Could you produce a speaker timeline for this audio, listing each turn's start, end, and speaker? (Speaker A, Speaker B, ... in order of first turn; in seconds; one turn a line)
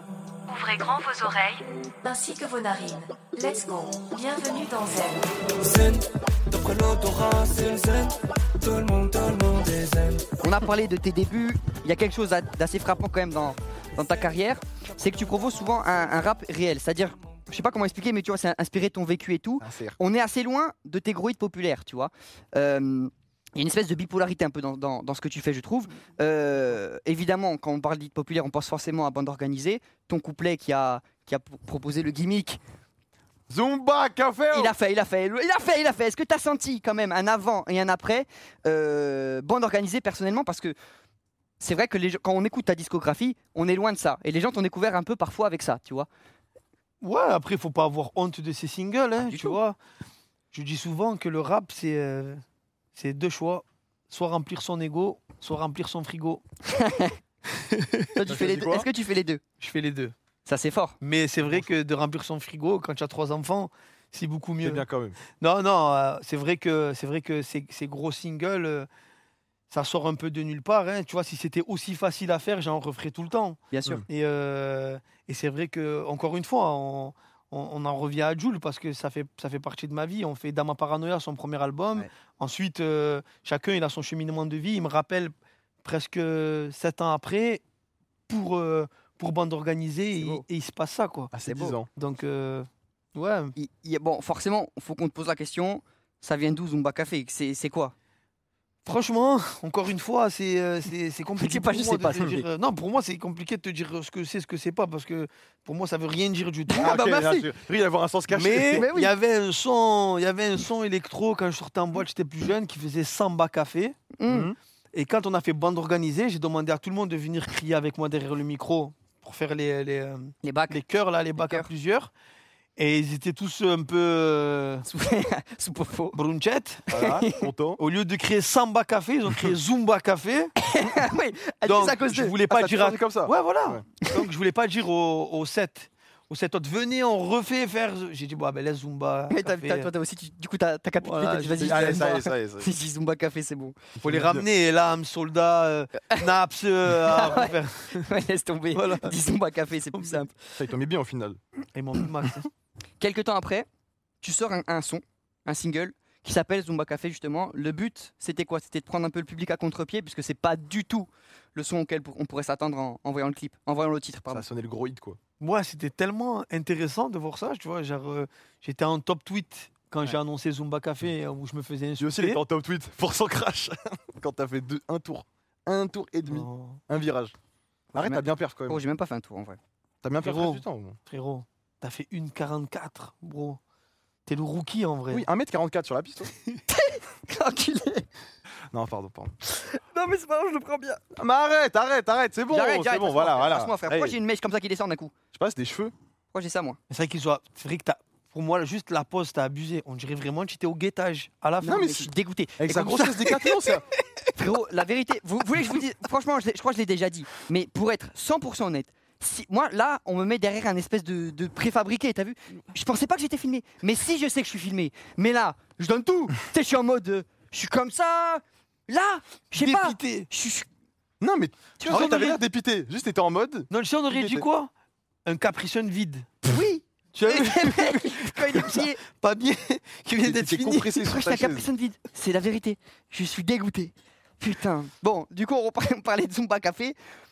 Speaker A: 0.5-5.3
Speaker B: 5.6-10.3
Speaker C: 10.4-32.6
Speaker D: 19.6-20.0
Speaker D: 33.5-34.8
Speaker C: 34.5-40.7
Speaker C: 41.6-46.1
Speaker E: 47.0-49.8
Speaker C: 49.2-49.6
Speaker E: 50.5-52.4
Speaker E: 53.0-56.4
Speaker C: 56.7-57.1
Speaker E: 57.5-58.1
Speaker C: 58.1-59.4
Speaker D: 58.2-58.9
Speaker E: 59.6-60.1
Speaker C: 60.5-61.0
Speaker E: 61.0-64.8
Speaker D: 64.6-65.2
Speaker E: 65.3-68.9
Speaker E: 69.7-85.3
Speaker C: 73.7-74.0
Speaker E: 85.8-87.6
Speaker E: 88.3-91.3
Speaker C: 90.2-90.4
Speaker D: 91.3-91.9
Speaker C: 91.5-91.8
Speaker E: 91.9-93.5
Speaker C: 93.6-97.9
Speaker E: 98.8-107.0
Speaker C: 101.4-102.4
Speaker C: 106.7-107.5
Speaker D: 106.8-108.9
Speaker E: 108.3-114.0
Speaker C: 108.7-109.1
Speaker C: 114.1-114.5
Speaker D: 114.3-114.5
Speaker E: 114.9-122.1
Speaker C: 120.4-120.8
Speaker C: 121.4-121.7
Speaker E: 122.8-124.8
Speaker C: 124.8-126.2
Speaker E: 126.1-126.9
Speaker D: 126.9-127.8
Speaker C: 126.9-127.4
Speaker E: 127.8-130.5
Speaker C: 130.6-132.4
Speaker E: 131.6-139.9
Speaker D: 132.4-133.8
Speaker C: 139.3-143.8
Speaker E: 141.0-142.1
Speaker D: 141.6-142.7
Speaker D: 144.0-144.4
Speaker E: 144.0-148.1
Speaker C: 147.0-150.3
Speaker E: 148.7-149.2
Speaker E: 149.9-150.2
Speaker D: 150.5-151.4
Speaker E: 151.7-152.5
Speaker C: 153.0-153.7
Speaker C: 154.2-164.5
Speaker D: 164.3-165.2
Speaker E: 165.4-172.4
Speaker D: 172.0-177.3
Speaker E: 176.3-176.8
Speaker D: 177.9-178.8
Speaker C: 177.9-179.6
Speaker D: 180.0-181.0
Speaker E: 180.2-183.6
Speaker E: 184.2-185.3
Speaker D: 185.1-186.3
Speaker C: 186.7-188.1
Speaker D: 188.7-189.3
Speaker C: 189.5-191.0
Speaker D: 191.1-194.2
Speaker C: 192.5-195.1
Speaker D: 195.3-195.9
Speaker C: 196.3-196.8
Speaker E: 196.9-202.1
Speaker C: 201.6-203.4
Speaker D: 201.6-203.8
Speaker E: 203.0-203.4
Speaker C: 204.3-220.7
Speaker E: 219.6-220.3
Speaker D: 221.2-224.4
Speaker C: 221.8-222.2
Speaker E: 221.9-222.4
Speaker E: 223.7-224.7
Speaker E: 225.2-226.4
Speaker C: 226.5-229.0
Speaker E: 227.1-231.1
Speaker D: 230.2-231.7
Speaker C: 231.0-237.0